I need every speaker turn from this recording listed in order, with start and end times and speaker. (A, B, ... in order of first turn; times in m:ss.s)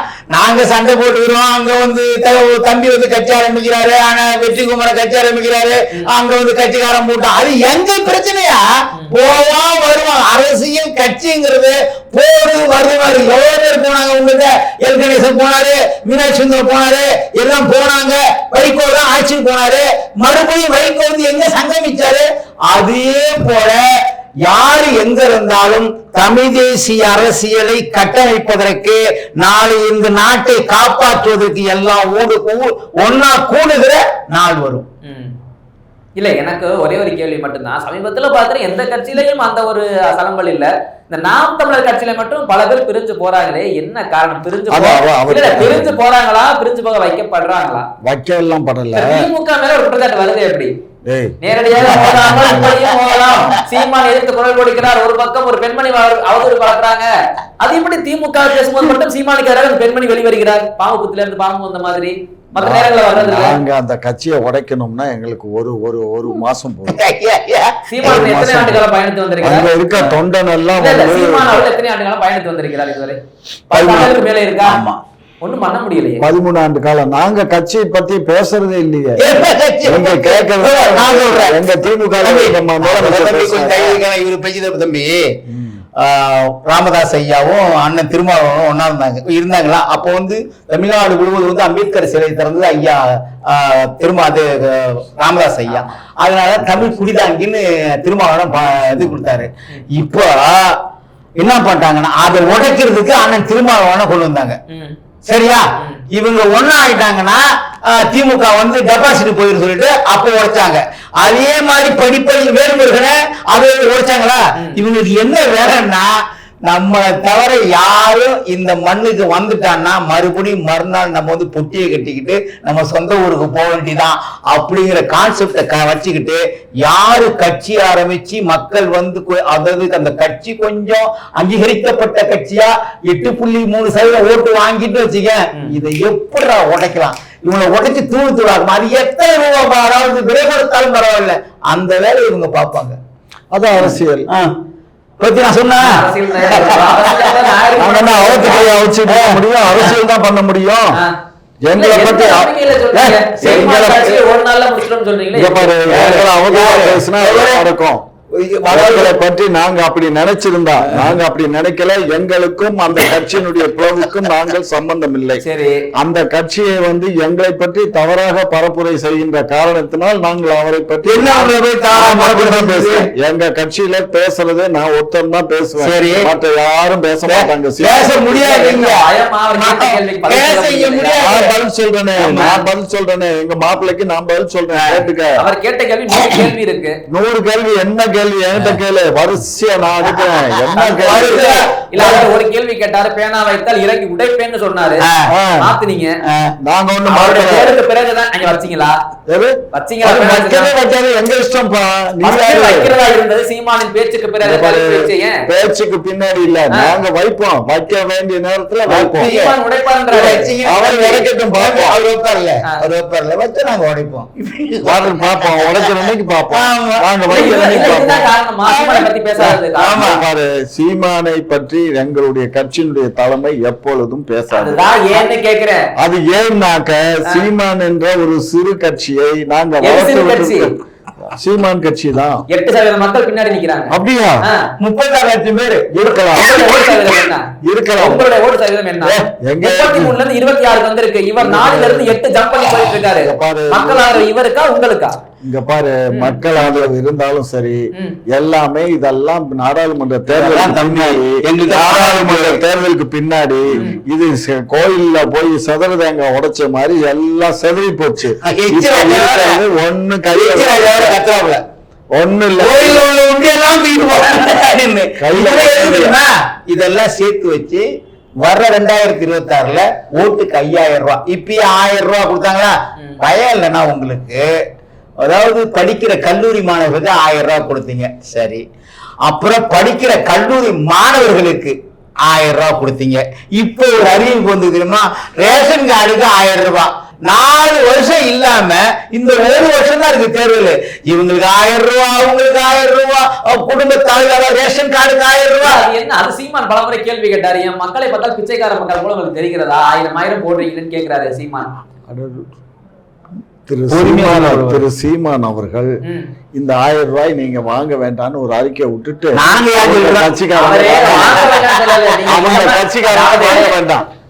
0:00.3-0:34.8 A
0:35.0-0:35.3 B
0:36.2-0:47.9 B
0:44.7-0:46.0 C
0:48.0-0:49.3 C
0:48.9-0:50.7 B
0:51.0-0:52.6 C
0:51.4-0:57.1 B
0:51.9-0:53.6 A
0:57.6-1:03.6 B
1:02.6-1:07.0 C
1:06.9-1:07.8 A
1:07.9-1:10.1 B
1:08.0-1:08.8 C
1:09.4-1:11.6 C
1:10.8-1:13.2 B
1:13.7-1:14.8 B
1:13.8-1:14.1 C
1:14.6-1:15.0 A
1:15.4-1:16.3 B
1:16.2-1:24.0 C
1:19.2-1:21.6 A
1:22.2-1:25.3 A
1:25.5-1:25.8 C
1:26.0-1:40.8 A
1:38.5-1:39.2 C
1:41.4-1:44.6 A
1:44.7-1:45.0 B
1:45.3-2:23.0 A
1:45.8-1:46.0 B
2:23.5-2:24.3 C
2:23.8-2:24.6 A
2:25.2-2:25.9 A
2:25.8-2:28.8 B
2:26.5-2:27.3 A
2:27.8-2:31.0 C
2:28.5-2:29.4 A
2:31.6-2:32.5 C
2:31.7-2:36.2 B
2:33.0-2:34.0 A
2:33.4-2:34.2 C
2:35.3-2:38.0 C
2:35.9-2:37.6 A
2:38.4-2:39.2 A
2:38.7-2:45.4 C
2:40.8-2:41.1 A
2:45.4-2:45.8 B
2:46.0-2:58.2 C
2:51.0-2:53.0 A
2:55.8-2:56.3 A
2:57.3-3:01.5 A
2:58.2-3:01.4 B
3:01.2-3:05.4 C
3:02.2-3:02.6 A
3:04.7-3:05.0 A
3:05.4-3:07.0 B
3:06.1-3:06.5 A
3:07.1-3:11.7 C
3:10.8-3:15.0 B
3:10.9-3:12.2 A
3:15.0-3:15.3 A
3:15.3-3:15.7 C
3:15.6-3:16.2 B
3:16.2-3:16.5 A
3:16.6-3:17.7 C
3:17.1-3:19.0 B
3:19.3-3:22.9 C
3:19.7-3:20.7 B
3:22.2-3:25.4 B
3:24.4-3:29.3 C
3:28.9-3:29.6 A
3:29.2-3:30.4 B
3:30.1-3:37.0 A
3:30.6-3:32.0 C
3:34.8-3:38.3 C
3:37.3-3:40.0 B
3:38.6-3:39.1 A
3:39.4-3:45.3 C
3:39.7-3:40.2 A
3:44.5-3:45.9 B
3:46.0-3:52.4 C
3:49.8-3:50.7 B
3:52.5-3:54.6 B
3:53.9-3:54.4 C
3:54.8-3:56.2 A
3:55.9-3:57.0 C
3:56.3-4:05.2 B
3:57.6-3:58.3 C
3:59.4-4:00.2 C
4:01.4-4:02.2 C
4:02.8-4:04.2 C
4:05.4-4:21.2 C
4:06.1-4:06.6 B
4:07.9-4:08.2 B
4:10.3-4:12.6 A
4:13.8-4:14.0 B
4:18.4-4:19.6 A
4:20.2-4:21.6 A
4:22.1-4:23.0 C
4:22.6-4:27.8 A
4:25.2-4:26.2 C
4:28.4-4:34.4 A
4:35.2-4:38.6 A
4:39.2-4:41.7 A
4:42.2-4:55.8 A
4:55.6-5:01.7 B
5:02.1-5:02.5 C
5:03.6-5:06.0 C
5:03.9-5:04.8 A
5:06.0-5:06.3 B
5:06.5-5:11.6 C
5:09.3-5:10.3 A
5:10.6-5:13.7 B
5:11.2-5:12.1 A
5:12.3-5:14.0 C